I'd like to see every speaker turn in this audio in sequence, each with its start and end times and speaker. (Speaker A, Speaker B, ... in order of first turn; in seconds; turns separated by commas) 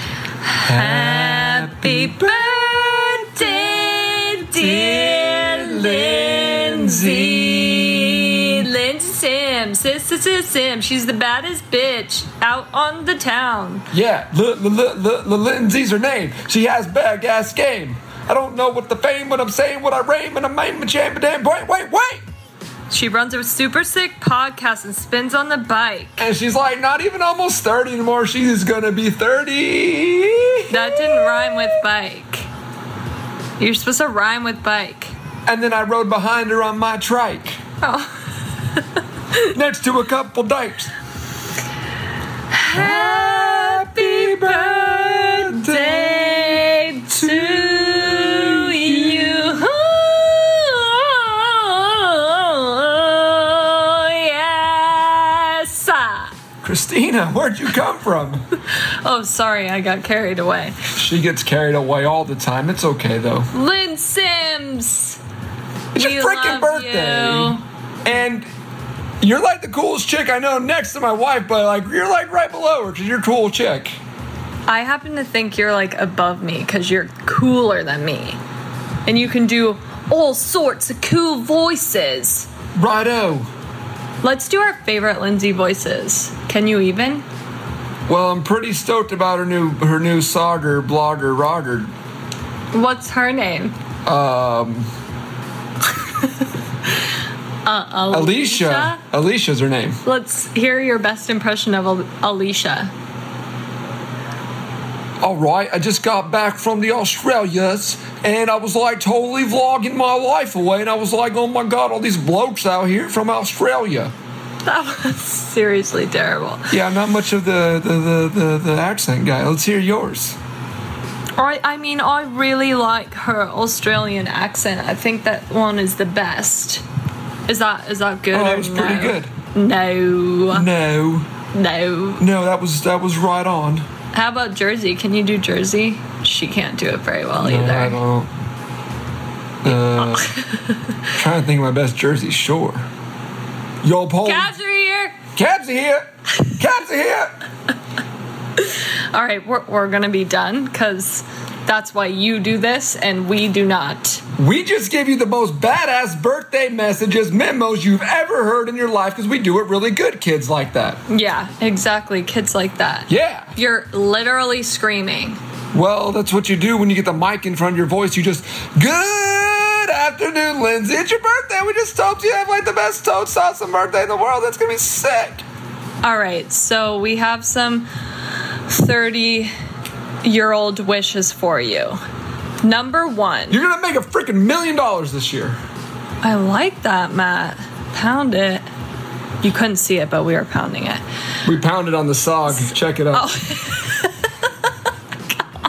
Speaker A: 0.5-13.9, Speaker B: 0.7-3.9, Speaker B: 4.5-8.4, Speaker B: 13.9-22.2, Speaker A: 22.9-26.2, Speaker B: 26.2-31.6, Speaker A: 30.7-32.5, Speaker A: 33.6-35.1, Speaker B: 35.5-37.6, Speaker A: 37.8-38.1, Speaker B: 39.5-40.9, Speaker A: 42.5-56.3, Speaker B: 42.7-49.5, Speaker B: 56.6-58.4, Speaker A: 59.0-60.8, Speaker B: 61.0-63.5, Speaker A: 63.5-65.2, Speaker B: 65.9-68.5, Speaker A: 66.0-67.6, Speaker B: 69.2-74.0, Speaker A: 74.7-78.4, Speaker A: 79.0-82.5, Speaker B: 82.8-83.5, Speaker A: 84.2-87.2, Speaker B: 88.1-91.9, Speaker A: 92.7-93.7, Speaker B: 94.0-94.9, Speaker A: 97.7-99.0, Speaker B: 98.1-100.0, Speaker A: 100.0-102.9, Speaker B: 105.2-114.1, Speaker A: 114.7-116.8, Speaker B: 116.7-120.3, Speaker A: 121.4-126.8, Speaker A: 127.5-130.7, Speaker B: 128.3-129.3, Speaker B: 130.5-131.3, Speaker A: 131.5-132.2, Speaker B: 132.2-133.8, Speaker A: 134.1-138.0, Speaker B: 137.4-138.3, Speaker B: 139.6-140.3, Speaker A: 139.7-140.7, Speaker B: 141.2-142.8, Speaker B: 143.8-144.5, Speaker A: 144.2-145.2, Speaker B: 145.3-147.3, Speaker A: 149.1-154.2, Speaker B: 154.4-161.0, Speaker A: 161.1-165.4, Speaker B: 163.1-163.5, Speaker B: 165.7-175.4, Speaker A: 176.0-177.9, Speaker A: 178.7-179.5, Speaker A: 180.2-182.0, Speaker A: 182.6-183.6, Speaker B: 183.5-185.6, Speaker A: 186.2-188.7, Speaker A: 189.4-191.0, Speaker B: 191.4-193.3, Speaker A: 192.5-194.1